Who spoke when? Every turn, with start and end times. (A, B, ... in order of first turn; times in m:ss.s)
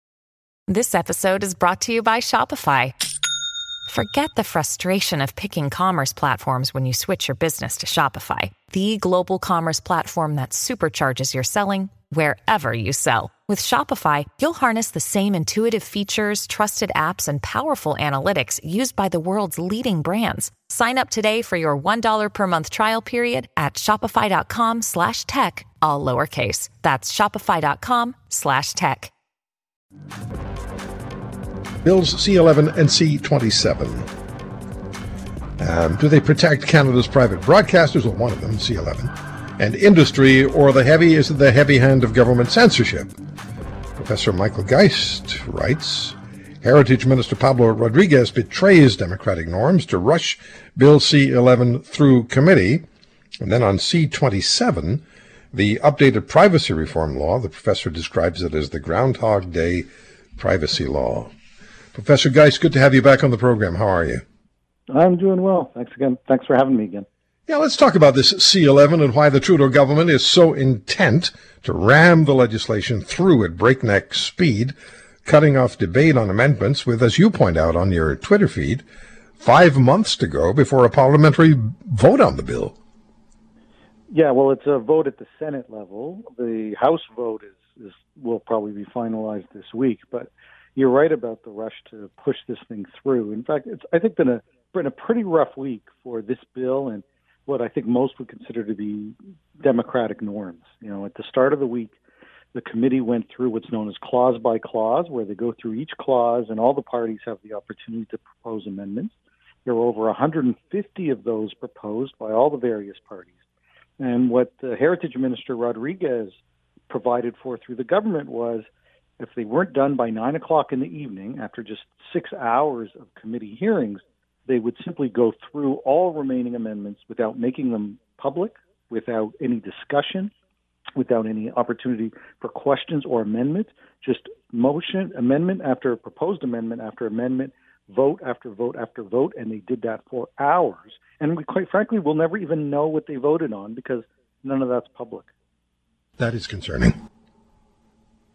0:00.7-0:02.9 A
0:03.9-0:29.1 A
0:31.8-0:34.1 B
0:35.6-0:43.1 B
0:44.0-0:52.8 B
0:53.4-1:01.3 B
1:01.9-1:04.2 B
1:04.9-1:07.1 C
1:07.5-1:18.8 B
1:19.4-1:22.8 B
1:24.1-1:42.0 C
1:42.5-1:53.3 C
1:54.0-1:58.7 C
1:59.2-2:10.3 C
2:11.0-2:25.3 C
2:26.2-2:26.9 B